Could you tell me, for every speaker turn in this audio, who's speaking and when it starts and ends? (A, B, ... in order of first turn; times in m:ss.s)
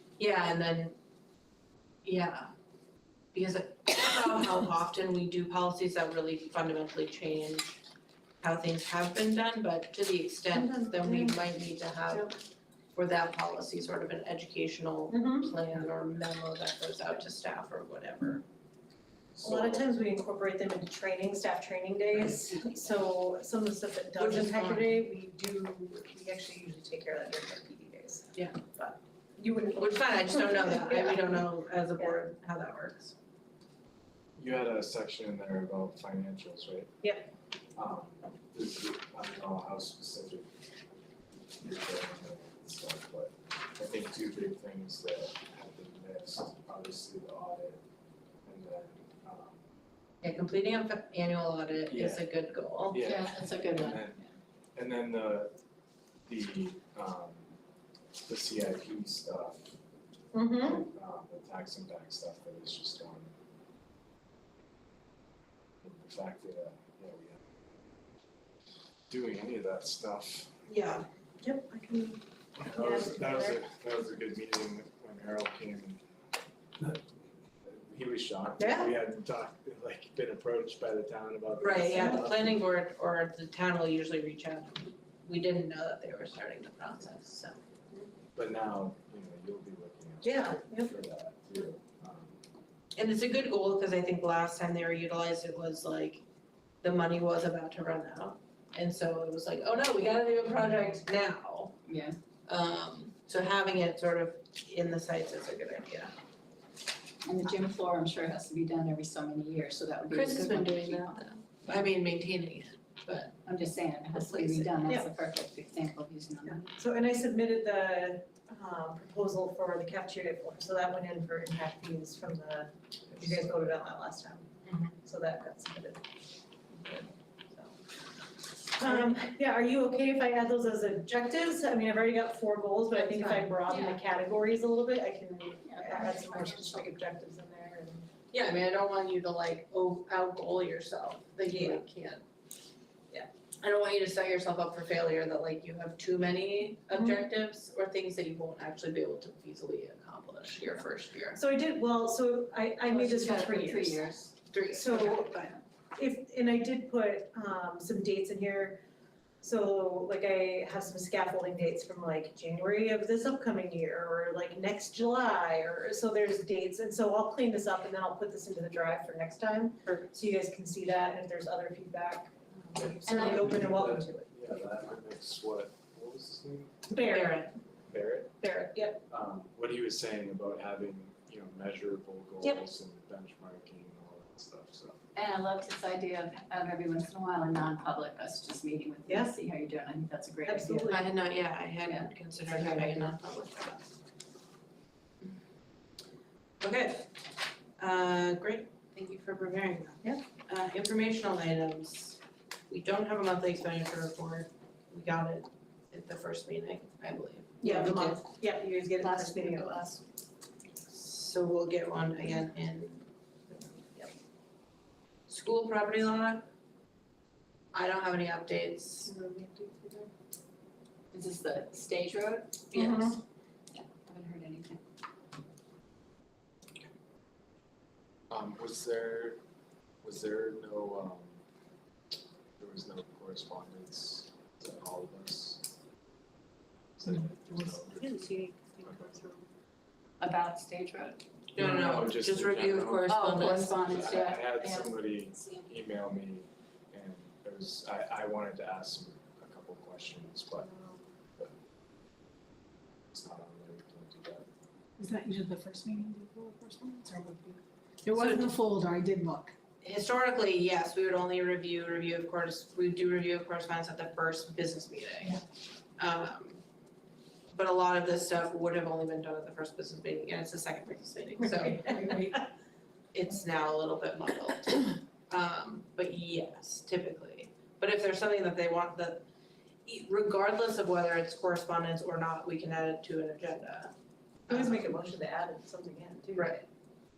0:00.2-0:01.0 A
0:02.0-0:02.5 A
0:03.3-0:07.8 A
0:08.4-0:12.3 A
0:10.5-0:11.4 B
0:12.0-0:12.3 B
0:12.9-0:18.4 A
0:15.1-0:15.5 B
0:19.3-0:19.9 C
0:19.4-0:32.2 B
0:24.2-0:25.0 A
0:29.8-0:33.1 A
0:34.4-0:36.9 C
0:37.8-0:40.5 C
0:41.6-0:47.8 C
0:48.4-0:49.6 C
0:50.2-0:53.0 A
0:51.9-0:52.3 C
0:52.9-0:54.2 C
0:53.0-0:54.3 D
0:54.8-0:55.5 C
0:56.3-0:57.5 C
0:58.2-0:59.8 C
1:00.3-1:00.8 B
1:00.6-1:03.3 C
1:05.8-1:07.4 C
1:09.1-1:10.5 C
1:10.7-1:11.0 A
1:11.4-1:13.6 B
1:12.6-1:16.0 C
1:17.6-1:22.6 C
1:18.6-1:18.9 A
1:21.6-1:27.6 A
1:21.9-1:22.3 B
1:28.3-1:32.4 C
1:30.2-1:31.0 B
1:33.0-1:36.2 A
1:36.8-1:41.7 A
1:41.8-1:42.2 D
1:42.5-1:46.1 A
1:47.2-1:51.2 D
1:50.1-1:53.4 A
1:53.4-1:56.6 D
1:54.1-1:55.0 A
1:56.4-2:04.5 B
2:04.6-2:04.9 A
2:05.0-2:06.0 B
2:06.7-2:07.8 B
2:08.8-2:18.1 B
2:12.9-2:13.6 A
2:13.7-2:14.0 D
2:15.6-2:16.9 D
2:18.3-2:22.2 A
2:21.4-2:21.8 B
2:23.6-2:31.4 A
2:26.9-2:27.3 B
2:31.3-2:34.0 B
2:32.8-2:34.4 D
2:34.5-2:35.6 A
2:34.7-2:35.4 B
2:35.9-2:38.8 B
2:39.4-2:54.3 B
2:49.8-2:50.1 A
2:52.7-2:56.8 C
2:53.1-2:53.5 D
2:56.9-2:57.5 B
2:57.0-2:57.5 A
2:57.9-2:58.3 C
2:58.4-2:59.0 B
2:59.1-3:05.0 C
3:02.4-3:02.7 B
3:05.1-3:10.9 D
3:09.0-3:09.4 B
3:10.4-3:11.1 B
3:10.9-3:13.8 A
3:11.8-3:13.2 D
3:16.6-3:17.1 A
3:17.8-3:28.2 A
3:27.6-3:30.0 B
3:27.7-3:28.2 D
3:29.0-3:29.6 D
3:30.9-3:33.0 A
3:33.5-3:34.1 B
3:35.3-3:36.5 A
3:37.7-3:39.1 A
3:39.0-3:40.1 B
3:41.1-3:43.2 D
3:42.7-3:43.2 A
3:43.7-3:44.8 D
3:48.3-3:49.4 C
3:50.0-3:51.4 C
3:52.6-3:55.6 C
3:57.0-3:59.2 C
3:57.5-3:59.4 B
4:00.2-4:01.2 D
4:01.5-4:04.2 A
4:01.6-4:10.7 C
4:03.1-4:05.6 D
4:10.6-4:11.0 B
4:13.1-4:14.5 C
4:15.0-4:17.4 E
4:15.4-4:17.5 B
4:18.1-4:19.4 E
4:18.1-4:18.6 A
4:18.7-4:19.4 B
4:19.8-4:25.4 A
4:26.0-4:26.6 A
4:27.5-4:32.4 A
4:31.4-4:32.4 B
4:33.1-4:39.2 A
4:39.8-4:43.9 A
4:44.5-4:44.9 A
4:44.5-4:46.5 B
4:46.3-4:46.6 A